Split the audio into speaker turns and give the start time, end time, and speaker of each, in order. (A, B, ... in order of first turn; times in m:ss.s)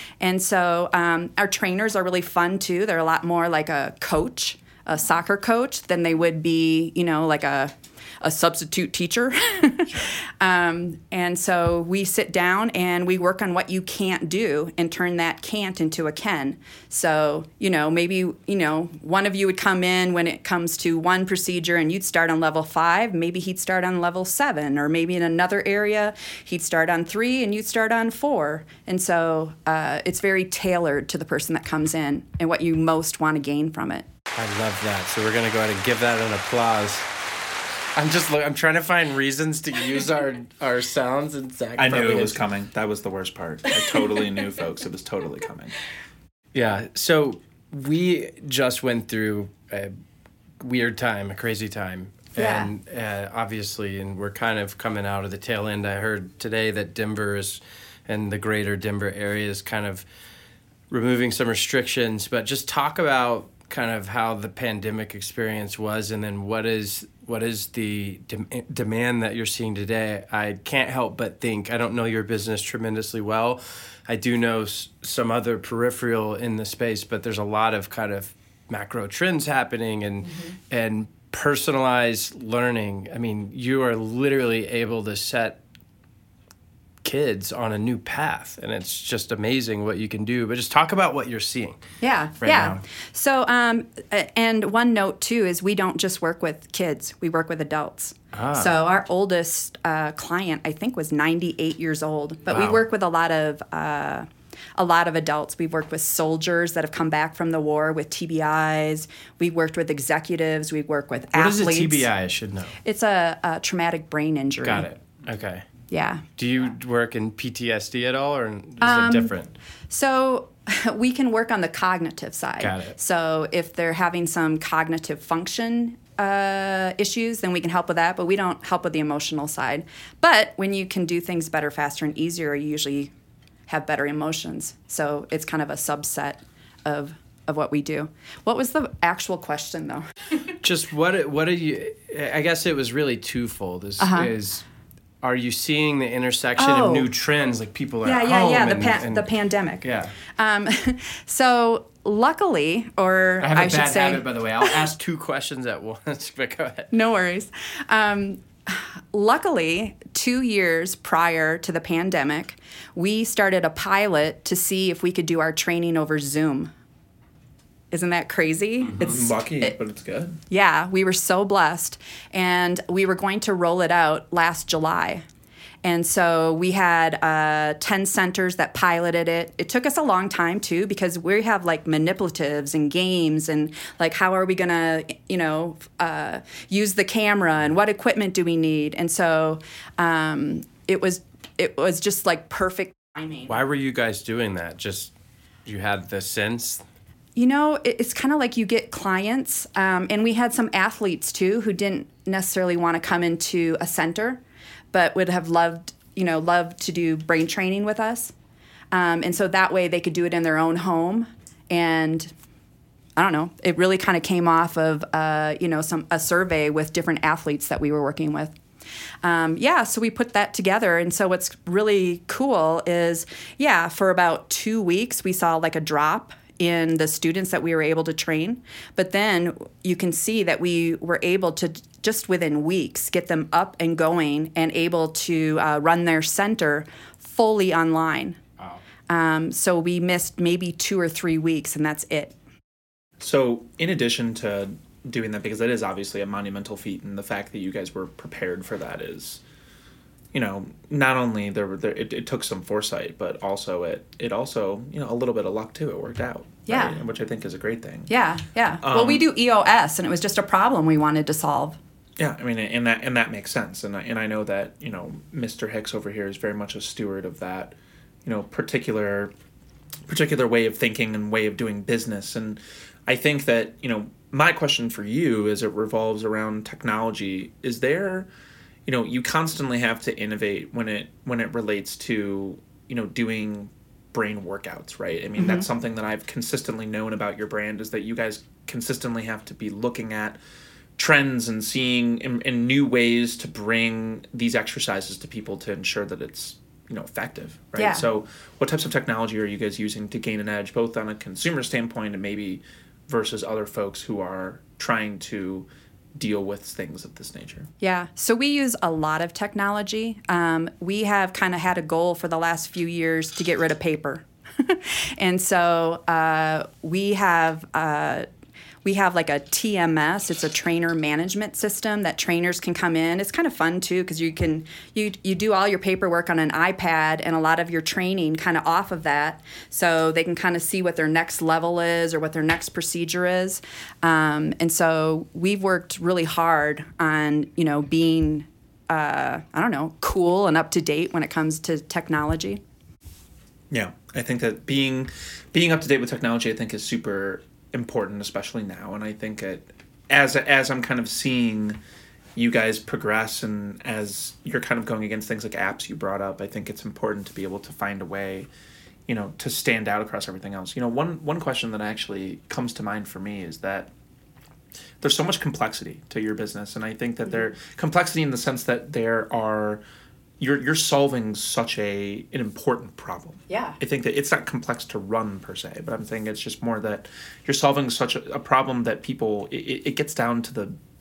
0:00.2-0:34.1 A
0:34.4-0:37.1 B
0:38.0-0:42.4 B
0:41.8-0:45.7 C
0:46.5-0:49.9 B
0:50.6-1:00.1 B
0:52.4-0:52.7 A
1:00.9-1:25.6 B
1:27.0-1:31.8 B
1:32.0-1:52.1 A
1:32.4-1:32.8 B
1:38.3-1:38.8 B
1:42.5-1:42.8 B
1:51.4-1:52.8 B
1:52.8-1:54.9 A
1:54.6-1:55.6 B
1:55.9-1:56.2 A
1:56.4-1:59.5 B
1:58.8-1:59.3 A
1:59.9-2:13.1 A
2:02.6-2:03.0 B
2:13.7-2:20.3 A
2:20.6-2:24.6 B
2:24.0-2:24.3 A
2:25.2-2:29.3 B
2:26.6-2:27.1 A
2:28.0-2:29.8 A
2:29.8-2:30.2 B
2:30.4-2:34.9 A
2:33.4-2:36.9 B
2:36.9-2:46.7 A
2:47.9-2:49.8 A
2:49.0-2:50.4 C
2:50.5-2:55.2 A
2:55.8-3:13.6 A
3:13.5-3:15.1 B
3:15.6-3:16.8 B
3:17.4-3:24.4 A
3:24.9-3:28.3 A
3:28.9-3:32.3 A
3:33.2-3:38.5 A
3:39.2-3:58.4 A
3:59.1-4:02.4 A
4:03.2-4:09.4 C
4:10.3-4:18.1 C
4:16.7-4:17.0 A
4:18.1-4:21.8 A
4:18.8-4:19.3 C
4:22.2-4:29.3 C
4:30.1-4:38.3 C
4:38.9-4:50.4 C
4:45.4-4:45.7 A
4:51.0-5:07.7 C
4:57.8-4:58.1 A
5:07.8-5:18.3 A
5:18.8-5:42.6 A
5:43.7-5:51.8 C
5:52.4-5:58.5 C
5:59.1-6:03.9 C
6:05.0-6:09.8 C
6:10.4-6:20.8 C
6:13.5-6:13.8 A